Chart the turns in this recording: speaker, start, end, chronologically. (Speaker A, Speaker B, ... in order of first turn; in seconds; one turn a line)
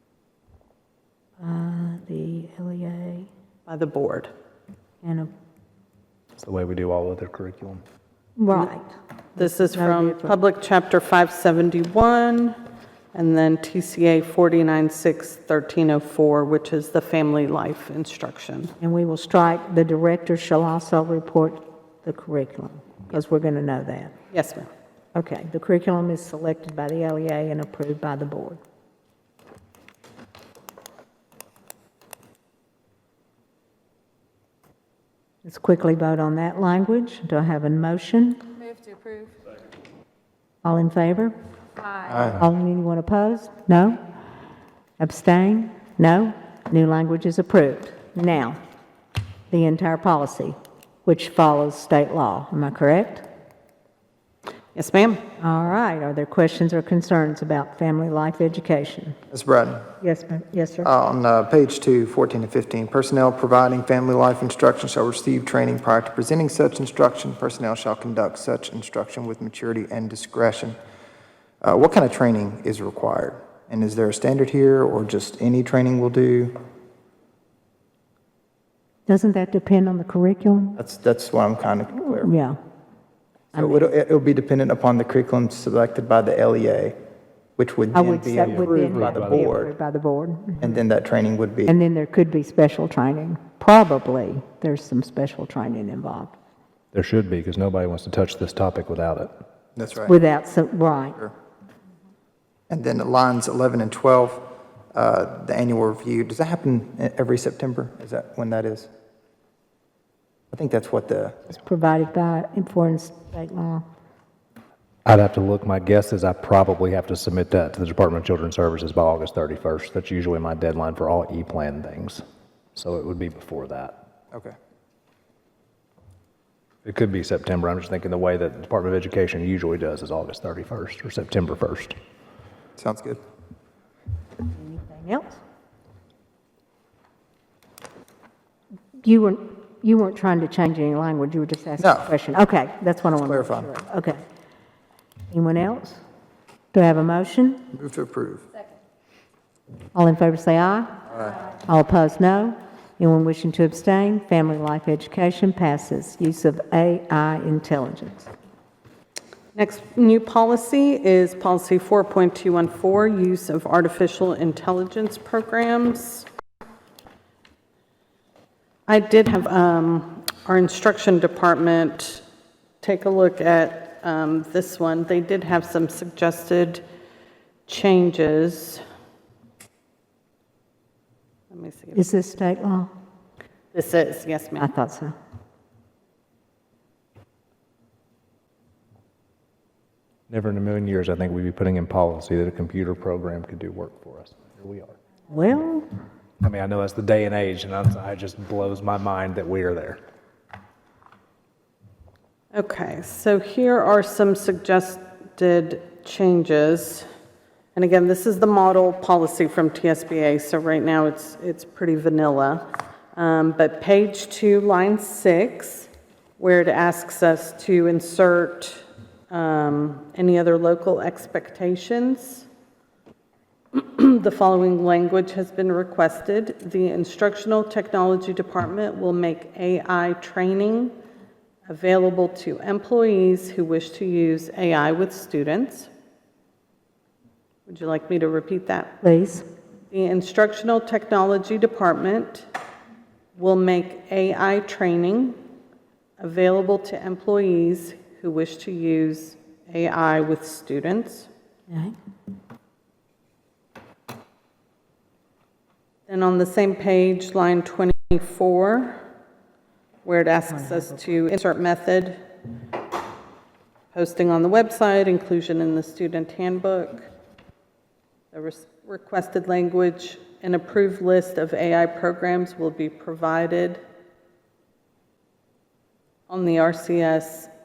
Speaker A: 1.4-3.3
Speaker B: 3.7-4.3
Speaker A: 5.0-5.3
Speaker C: 6.4-7.8
Speaker A: 8.4-10.4
Speaker B: 9.4-12.6
Speaker B: 13.1-18.7
Speaker A: 18.8-24.1
Speaker B: 24.3-24.7
Speaker A: 25.1-28.6
Speaker A: 35.4-38.5
Speaker A: 40.6-41.3
Speaker D: 42.0-42.4
Speaker A: 42.3-44.0
Speaker A: 45.0-48.6
Speaker A: 49.5-53.3
Speaker B: 54.8-55.2
Speaker A: 55.4-59.2
Speaker D: 59.3-59.9
Speaker A: 60.0-60.9
Speaker D: 60.8-70.8
Speaker D: 71.6-76.6
Speaker A: 79.1-80.8
Speaker D: 80.8-82.3
Speaker A: 82.2-82.6
Speaker A: 83.5-83.9
Speaker D: 83.5-87.0
Speaker D: 87.6-89.7
Speaker A: 87.9-90.8
Speaker C: 88.4-89.5
Speaker D: 90.6-91.8
Speaker A: 91.7-96.4
Speaker C: 96.9-99.3
Speaker D: 99.8-100.1
Speaker A: 100.0-101.2
Speaker D: 102.7-108.9
Speaker D: 110.5-111.5
Speaker A: 111.5-113.8
Speaker C: 115.1-122.2
Speaker C: 122.8-124.0
Speaker C: 126.8-131.9
Speaker D: 132.8-133.2
Speaker A: 134.5-135.4
Speaker A: 139.0-144.2
Speaker D: 141.8-142.1
Speaker D: 143.2-143.7
Speaker A: 145.3-146.0
Speaker A: 146.7-147.6
Speaker D: 147.7-148.5
Speaker A: 149.9-158.3
Speaker B: 159.6-166.3
Speaker B: 168.9-172.2
Speaker B: 172.8-176.8
Speaker B: 177.7-178.8
Speaker B: 181.5-182.1
Speaker A: 181.9-182.9
Speaker B: 183.7-184.7
Speaker A: 184.6-185.2
Speaker C: 190.3-195.0
Speaker A: 195.3-195.9
Speaker C: 196.4-200.0
Speaker B: 202.5-207.1
Speaker B: 207.8-212.7
Speaker B: 213.2-222.5
Speaker B: 223.7-230.9
Speaker B: 231.7-235.9
Speaker B: 237.7-239.0
Speaker A: 239.0-239.4
Speaker B: 239.9-242.5
Speaker B: 243.3-245.4
Speaker B: 246.2-251.3
Speaker A: 251.7-251.9
Speaker B: 256.1-259.0
Speaker B: 260.1-262.2
Speaker A: 260.5-261.0
Speaker B: 263.9-267.1
Speaker B: 268.3-273.8
Speaker B: 276.3-277.5